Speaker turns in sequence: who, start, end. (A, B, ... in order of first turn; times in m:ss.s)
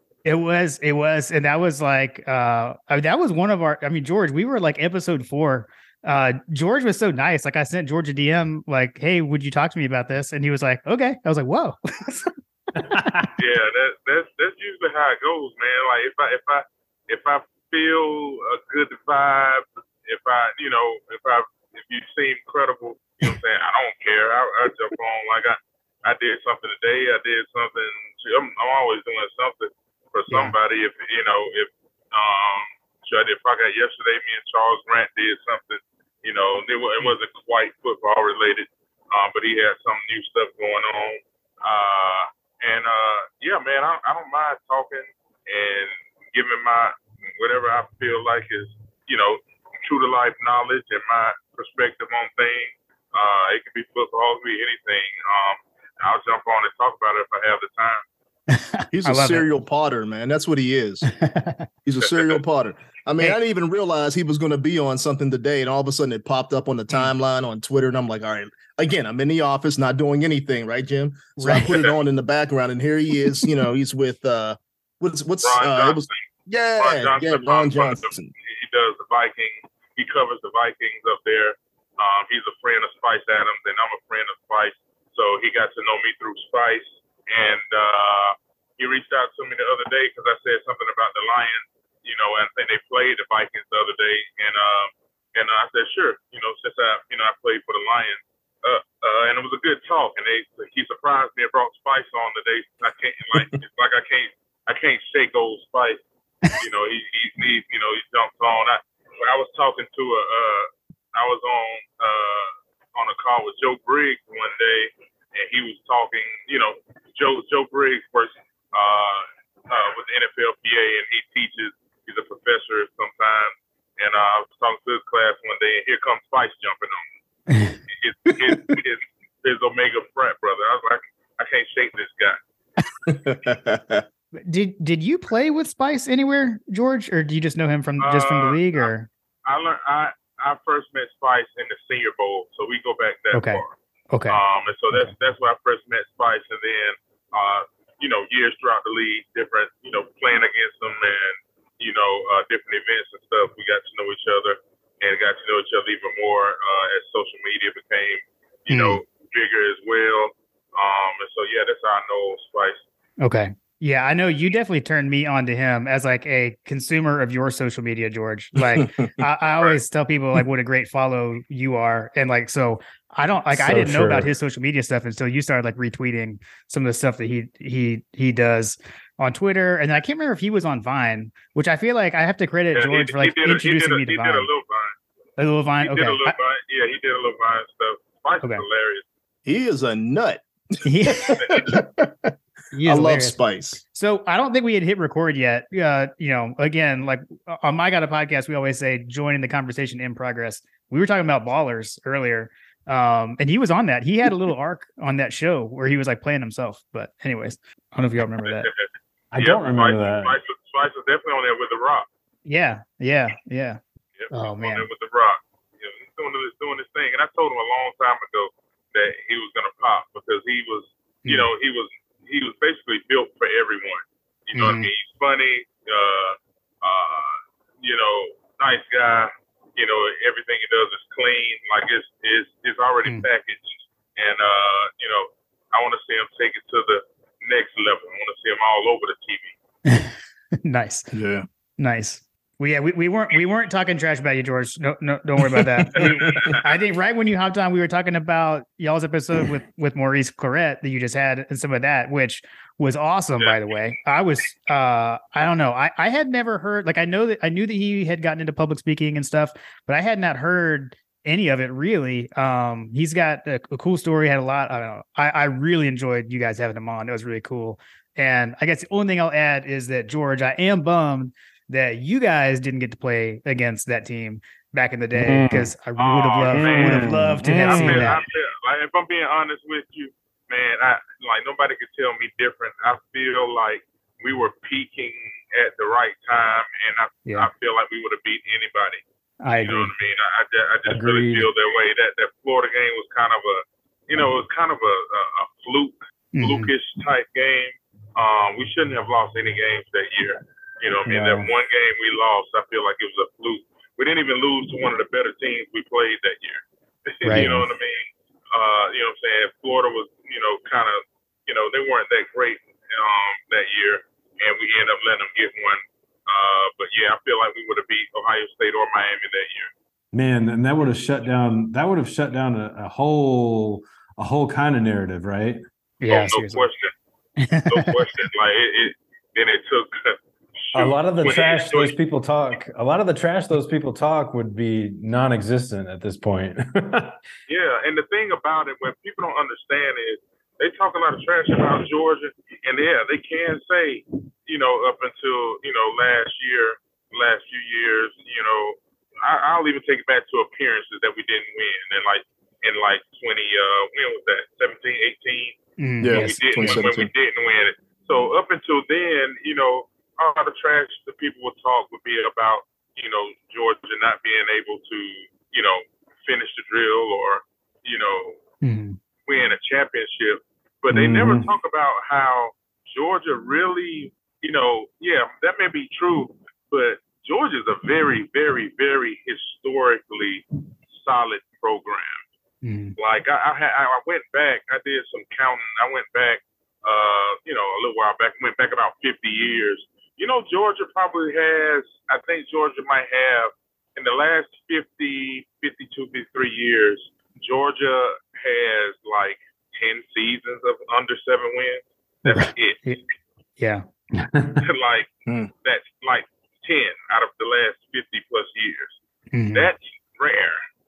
0:00.2-0:13.2 A
0:12.8-0:13.2 B
0:13.4-0:58.0 C
0:30.3-0:30.5 A
0:58.5-0:59.4 A
0:58.9-1:01.1 D
1:01.1-1:01.7 A
1:01.8-1:18.3 D
1:02.0-1:02.4 C
1:11.4-1:11.9 A
1:15.4-1:16.2 C
1:16.8-1:46.0 C
1:46.6-2:07.0 C
2:07.5-2:07.8 A
2:07.9-2:12.4 C
2:13.1-2:14.0 D
2:14.4-2:19.1 A
2:18.0-2:18.9 C
2:19.4-2:23.8 C
2:23.3-2:25.1 A
2:24.3-2:42.8 C
2:38.7-2:39.0 A
2:43.2-3:04.5 A
2:48.8-2:49.1 D
2:53.5-2:54.3 B
3:02.7-3:05.0 C
3:05.4-3:06.3 A
3:05.8-3:09.0 C
3:09.4-3:13.8 D
3:10.8-3:11.8 A
3:11.4-3:11.6 C
3:12.7-3:28.7 A
3:28.6-3:32.1 C
3:29.3-3:30.3 B
3:32.4-3:33.8 A
3:34.2-3:59.5 C
3:34.3-3:34.9 A
3:41.2-3:41.5 A
3:44.5-3:44.9 A
3:59.8-4:01.1 A
4:01.1-4:01.4 D
4:01.8-4:38.2 A
4:06.0-4:06.6 C
4:35.1-4:35.7 B
4:36.0-4:49.0 C
4:36.5-4:38.2 B
4:49.4-4:49.9 A
4:49.6-5:19.7 C
4:50.9-4:51.5 B
4:56.3-4:56.7 A
5:01.0-5:01.5 B
5:07.2-5:07.5 A
5:07.3-5:07.7 B
5:20.1-5:25.6 B
5:26.0-5:26.7 A
5:26.1-5:26.9 C
5:27.4-5:27.9 A
5:27.7-5:30.2 C
5:30.7-5:31.9 C
5:30.7-5:37.2 B
5:37.5-5:55.6 C
5:55.8-5:56.8 A
5:56.0-5:57.1 D
5:56.1-6:08.4 C
6:08.6-6:09.0 A
6:09.2-6:22.2 C
6:10.9-6:11.5 B
6:22.6-6:23.0 A
6:23.0-6:42.8 C
6:42.2-6:43.0 A
6:43.6-6:43.8 A
6:44.2-6:44.6 B
6:44.6-6:45.1 C
6:45.6-6:48.9 C
6:49.3-6:49.7 A
6:49.5-6:50.6 C